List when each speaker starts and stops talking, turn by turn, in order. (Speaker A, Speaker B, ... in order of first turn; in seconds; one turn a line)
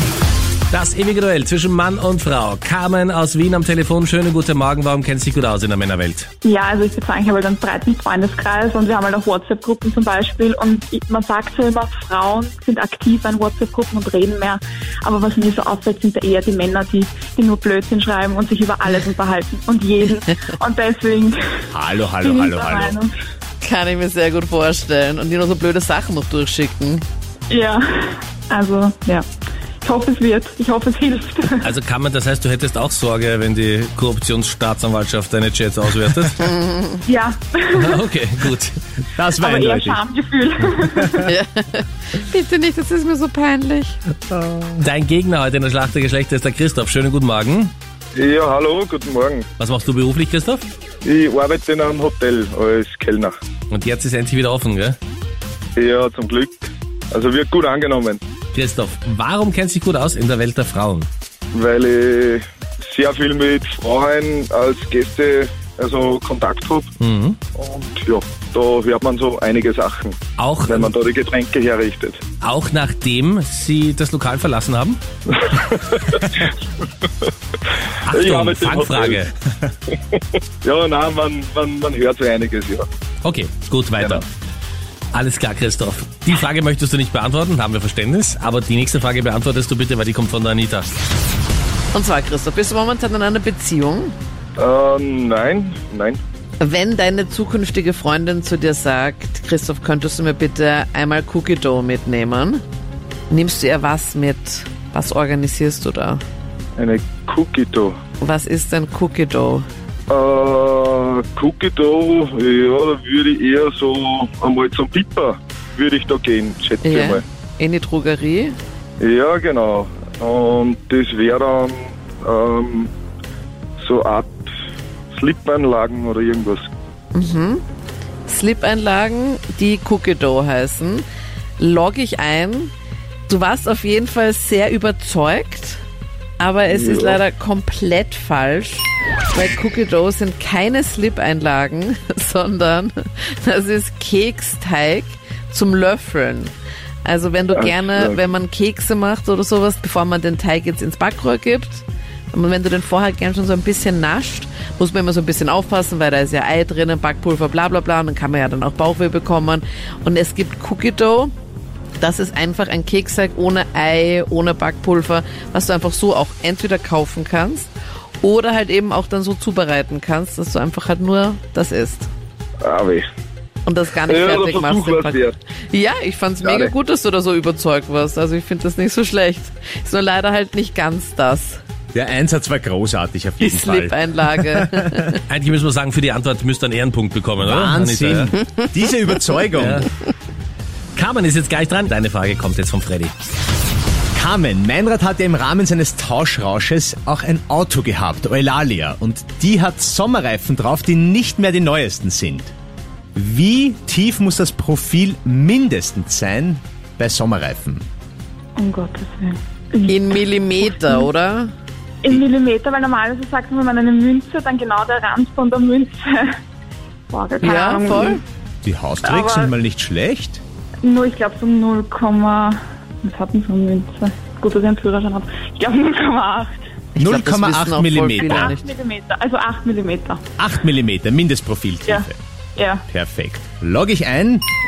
Speaker A: 0.7-6.3
Speaker B: 6.4-21.6
Speaker C: 21.7-23.0
Speaker B: 22.2-23.1
Speaker D: 23.6-27.0
Speaker B: 27.5-29.2
Speaker B: 29.8-31.7
Speaker A: 31.6-36.6
Speaker D: 36.6-37.0
Speaker B: 37.0-38.0
Speaker A: 37.7-38.8
Speaker C: 39.1-40.0
Speaker B: 39.4-41.3
Speaker D: 41.2-44.0
Speaker C: 44.3-44.8
Speaker A: 44.8-47.7
Speaker E: 48.1-49.5
Speaker A: 49.6-50.7
Speaker E: 51.0-53.3
Speaker A: 53.7-55.0
Speaker E: 55.8-58.2
Speaker A: 58.5-61.1
Speaker E: 61.5-66.9
Speaker A: 67.0-67.4
Speaker E: 67.5-72.2
Speaker A: 70.4-70.9
Speaker A: 72.4-75.0
Speaker E: 75.3-76.4
Speaker A: 78.0-79.3
Speaker E: 78.1-79.3
Speaker E: 79.9-82.9
Speaker A: 83.2-84.2
Speaker E: 84.0-84.2
Speaker A: 85.1-90.9
Speaker D: 91.9-94.1
Speaker E: 94.6-96.2
Speaker D: 96.6-102.6
Speaker D: 103.3-106.2
Speaker E: 106.8-108.0
Speaker D: 108.2-109.7
Speaker E: 110.1-117.2
Speaker D: 116.8-118.6
Speaker E: 119.0-122.9
Speaker E: 123.8-124.5
Speaker E: 125.1-126.7
Speaker D: 127.1-127.6
Speaker D: 128.2-131.1
Speaker D: 131.6-132.7
Speaker D: 133.3-135.8
Speaker D: 136.4-146.5
Speaker E: 136.7-137.2
Speaker D: 147.0-161.3
Speaker E: 147.5-148.2
Speaker D: 162.0-172.1
Speaker E: 172.6-173.0
Speaker D: 173.6-181.6
Speaker E: 174.1-175.3
Speaker E: 176.4-176.7
Speaker C: 181.9-185.0
Speaker D: 183.4-185.2
Speaker A: 185.3-188.3
Speaker C: 187.4-189.9
Speaker A: 189.5-189.9
Speaker A: 190.9-193.1
Speaker C: 194.1-202.5
Speaker C: 203.1-207.8
Speaker B: 208.6-210.2
Speaker D: 209.9-211.5
Speaker B: 212.0-216.4
Speaker B: 217.1-218.2
Speaker D: 217.4-218.2
Speaker C: 218.6-220.4
Speaker B: 219.0-219.5
Speaker B: 220.8-226.6
Speaker D: 226.9-228.7
Speaker C: 227.0-228.6
Speaker B: 228.2-230.2
Speaker C: 230.4-232.2
Speaker B: 231.8-232.8
Speaker C: 232.9-234.4